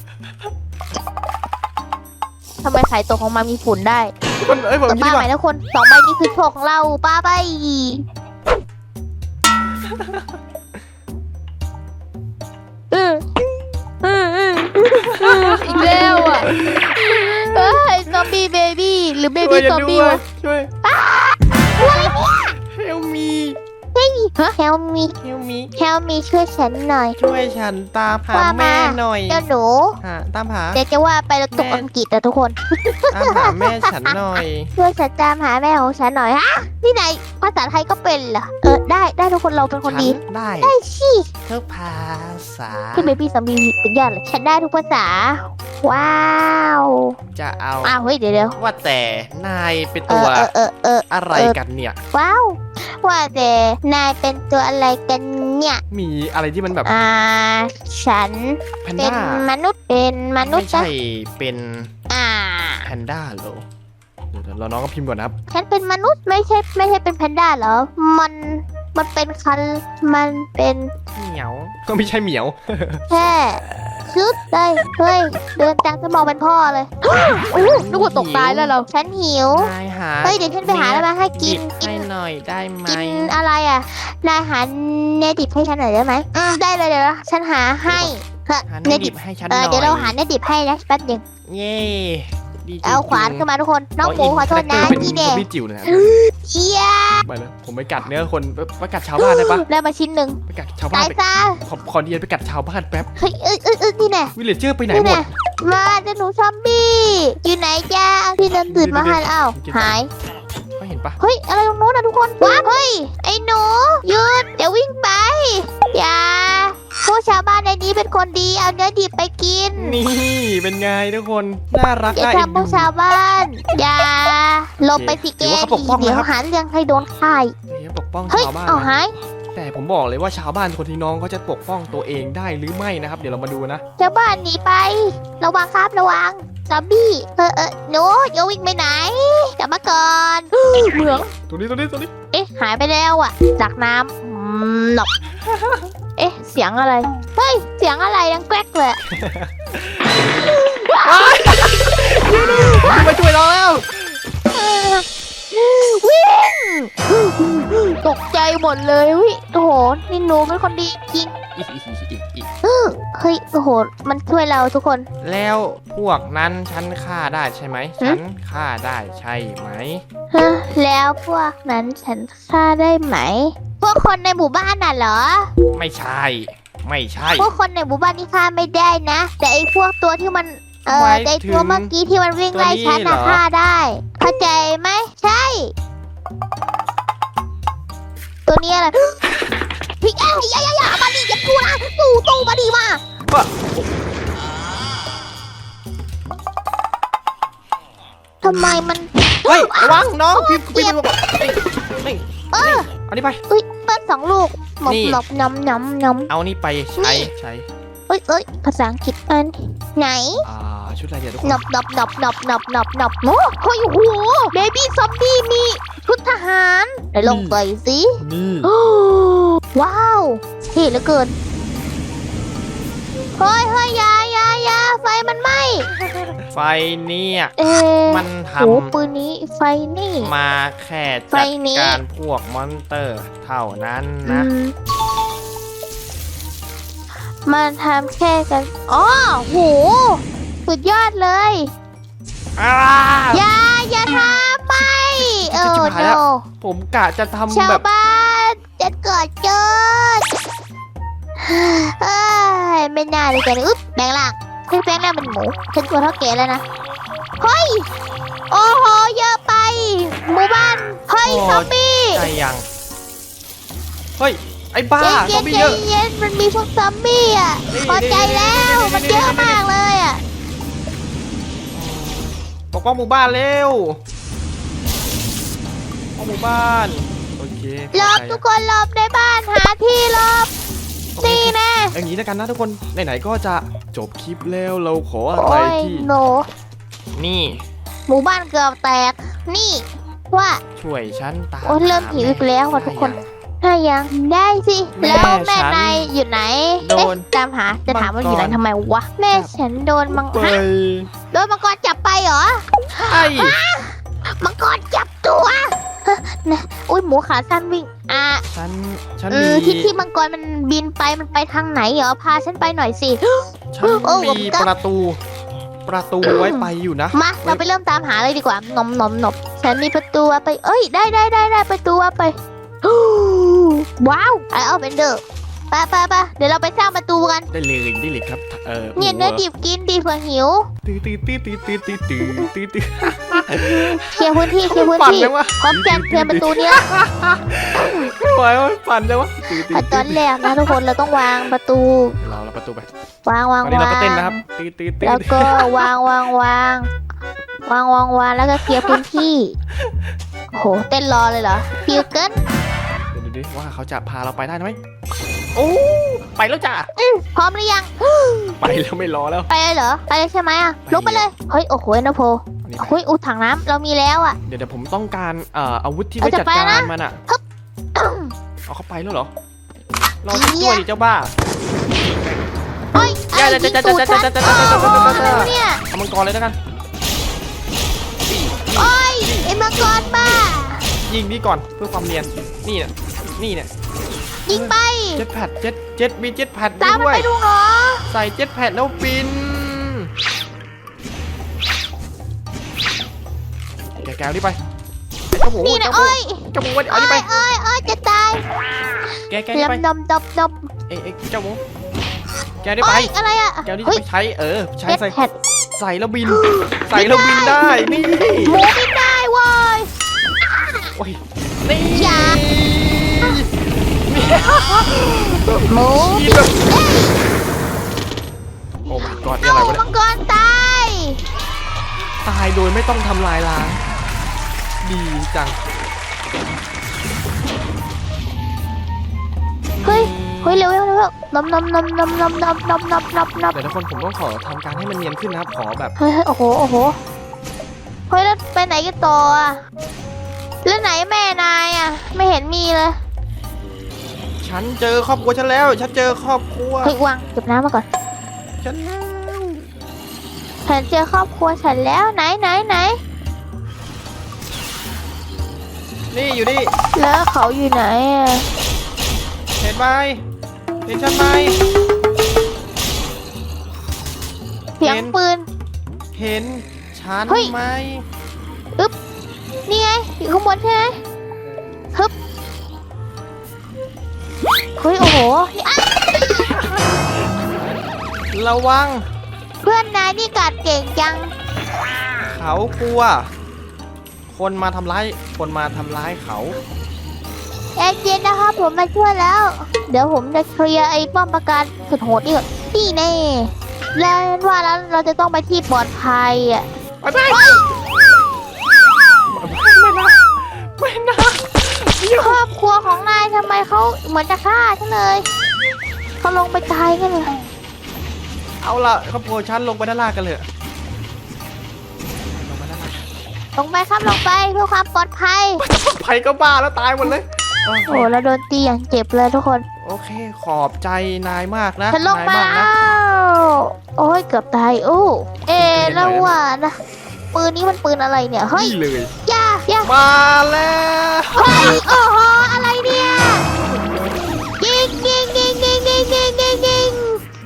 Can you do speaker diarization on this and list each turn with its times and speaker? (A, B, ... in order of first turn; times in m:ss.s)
0:02.6-0:04.1 A
0:04.4-0:05.3 B
0:04.9-0:08.0 A
0:09.8-0:10.3 B
0:12.9-0:13.4 A
0:14.0-0:20.2 A
0:15.0-0:18.3 B
0:19.4-0:20.7 B
0:20.8-0:22.5 A
0:21.7-0:23.6 B
0:24.0-0:25.2 A
0:25.2-0:25.7 B
0:25.8-0:27.2 A
0:27.2-0:29.4 B
0:28.3-0:30.0 A
0:30.0-0:30.8 B
0:30.8-0:41.3 A
0:31.5-0:31.9 B
0:33.1-0:34.7 B
0:39.8-0:40.8 B
0:41.5-0:43.2 B
0:43.0-0:47.1 A
0:47.4-0:48.0 B
0:47.8-0:48.6 A
0:48.6-0:50.5 B
0:50.1-0:51.6 A
0:51.1-0:52.0 B
0:52.1-0:55.8 A
0:55.9-0:56.9 B
0:56.8-1:00.9 A
0:58.8-0:59.5 B
1:00.4-1:01.9 B
1:02.1-1:02.9 A
1:02.8-1:03.6 B
1:04.3-1:05.3 B
1:05.5-1:10.9 A
1:11.2-1:13.0 B
1:13.1-1:19.7 A
1:17.5-1:18.8 B
1:19.5-1:23.3 B
1:20.2-1:22.0 A
1:22.9-1:31.2 A
1:27.9-1:28.1 B
1:28.7-1:30.2 B
1:31.5-1:33.5 B
1:32.8-1:37.3 A
1:34.0-1:36.2 B
1:37.2-1:39.6 B
1:39.2-1:40.4 A
1:40.5-1:43.1 B
1:40.9-1:41.6 A
1:43.2-1:44.3 A
1:44.4-1:45.4 B
1:44.9-1:50.1 A
1:48.5-1:50.0 B
1:50.8-1:51.2 B
1:51.2-2:00.0 A
1:59.8-2:02.9 B
2:02.1-2:07.5 A
2:04.8-2:06.3 B
2:07.7-2:09.0 B
2:08.3-2:09.1 A
2:09.5-2:13.8 B
2:14.0-2:21.3 A
2:20.8-2:22.1 B
2:22.3-2:25.1 A
2:25.5-2:25.9 B
2:26.2-2:29.0 A
2:29.1-2:34.0 B
2:30.5-2:32.9 A
2:34.5-2:41.3 A
2:41.6-2:42.5 B
2:42.6-2:45.1 A
2:45.2-2:50.0 B
2:50.3-2:55.5 A
2:55.7-2:57.5 B
2:57.4-3:05.7 A
3:00.9-3:01.9 B
3:02.5-3:03.4 B
3:08.5-3:09.2 A
3:10.0-3:13.0 A
3:13.3-3:13.9 B
3:18.4-3:21.0 A
3:18.5-3:18.8 B
3:19.4-3:23.4 B
3:22.5-3:22.9 A
3:23.5-3:26.3 A
3:24.9-3:25.2 B
3:26.3-3:27.7 B
3:27.0-3:27.3 A
3:28.1-3:30.4 A
3:30.4-3:31.6 B
3:31.4-3:41.3 A
3:37.2-3:37.6 B
3:38.2-3:38.7 B
3:43.4-3:45.9 A
3:46.4-3:47.5 B
3:47.6-3:50.3 A
3:48.1-3:48.9 B
3:50.2-3:54.5 B
3:51.3-3:52.0 A
3:54.2-3:54.7 A
3:57.4-4:01.7 A
4:02.6-4:03.4 B
4:03.3-4:06.4 A
4:04.8-4:07.8 B
4:07.5-4:10.3 A
4:11.4-4:16.6 A
4:17.4-4:17.9 A
4:18.5-4:22.3 A
4:21.2-4:22.6 B
4:24.2-4:25.8 B
4:25.0-4:30.2 A
4:27.7-4:29.6 B
4:31.7-4:34.0 B
4:36.2-4:38.4 B
4:37.9-4:40.5 A
4:41.2-4:46.1 B
4:41.2-4:42.0 A
4:45.4-4:46.5 A
4:47.1-4:47.6 B
4:48.1-4:50.6 A
4:50.8-4:53.3 B
4:51.6-5:00.6 A
4:55.0-4:56.1 B
4:56.8-4:57.3 B
4:57.9-4:58.6 B
5:00.1-5:01.1 B
5:01.3-5:08.4 A
5:03.0-5:03.6 B
5:08.5-5:09.9 B
5:09.3-5:14.7 A
5:13.7-5:15.2 B
5:15.9-5:17.6 B
5:16.2-5:27.5 A
5:27.5-5:29.4 B
5:29.0-5:30.7 A
5:30.8-5:40.8 B
5:33.1-5:33.5 A
5:34.1-5:36.9 A
5:37.8-5:38.1 A
5:39.7-5:42.2 A
5:42.2-5:42.9 B
5:43.3-5:44.4 A
5:43.6-5:45.9 B
5:45.0-5:46.9 A
5:47.7-5:49.6 A
5:48.6-5:49.0 B
5:50.5-5:52.4 A
5:53.1-5:54.8 B
5:55.6-5:56.9 B
5:57.0-5:58.6 A
5:58.6-5:59.5 B
5:59.5-6:04.4 A
6:00.9-6:01.3 B
6:02.6-6:03.0 B
6:04.5-6:07.2 B
6:06.2-6:07.4 A
6:08.0-6:08.3 A
6:08.7-6:09.3 B
6:10.2-6:11.3 B
6:10.3-6:10.8 A
6:13.0-6:15.8 A
6:13.3-6:16.6 B
6:18.3-6:20.4 B
6:18.8-6:20.9 A
6:21.0-6:23.7 B
6:24.5-6:25.2 A
6:24.5-6:27.3 B
6:26.8-6:28.0 A
6:28.1-6:30.1 B
6:34.0-6:34.6 B
6:35.3-6:37.3 B
6:35.6-6:38.4 A
6:39.3-6:39.8 B
6:39.5-6:40.7 A
6:40.9-6:41.6 B
6:42.6-6:43.1 B
6:42.8-6:44.0 A
6:43.6-6:45.2 B
6:44.9-6:45.3 A
6:45.8-6:48.7 B
6:46.3-6:49.9 A
6:50.4-6:50.9 A
6:51.0-6:53.5 B
6:51.9-6:52.4 A
6:54.1-6:56.6 B
6:55.7-6:57.2 A
6:58.9-6:59.9 B
6:59.4-7:01.2 A
7:02.2-7:03.8 B
7:04.8-7:05.6 B
7:09.8-7:10.7 B
7:09.8-7:13.6 A
7:13.5-7:15.9 B
7:16.0-7:17.0 A
7:18.1-7:19.6 A
7:20.6-7:23.0 A
7:24.4-7:27.0 B
7:26.8-7:27.9 A
7:28.6-7:29.7 B
7:30.7-7:33.0 A
7:36.1-7:36.7 B
7:37.0-7:38.5 A
7:39.6-7:40.2 B
7:40.9-7:41.6 B
7:44.8-7:45.5 A
7:44.8-7:45.2 B
7:46.1-7:48.0 B
7:47.3-7:47.5 A
7:49.7-7:51.0 A
7:54.8-7:56.5 A
7:56.2-7:57.8 B
7:58.3-7:59.1 B
7:59.6-8:01.3 A
8:02.2-8:03.3 B
8:04.3-8:06.6 B
8:07.8-8:16.7 A
8:17.0-8:17.8 B
8:17.3-8:17.6 A
8:19.3-8:22.4 B
8:22.2-8:25.3 A
8:26.2-8:27.3 A
8:28.6-8:30.5 B
8:32.3-8:33.1 B
8:33.6-8:35.6 A
8:35.6-8:38.1 B
8:37.9-8:39.6 A
8:39.8-8:42.7 B
8:41.9-8:46.8 A
8:45.5-8:46.3 B
8:47.3-8:49.9 A
8:48.5-8:49.1 B
8:49.8-8:52.0 B
8:51.4-8:53.5 A
8:53.1-8:54.4 B
8:54.6-8:57.2 A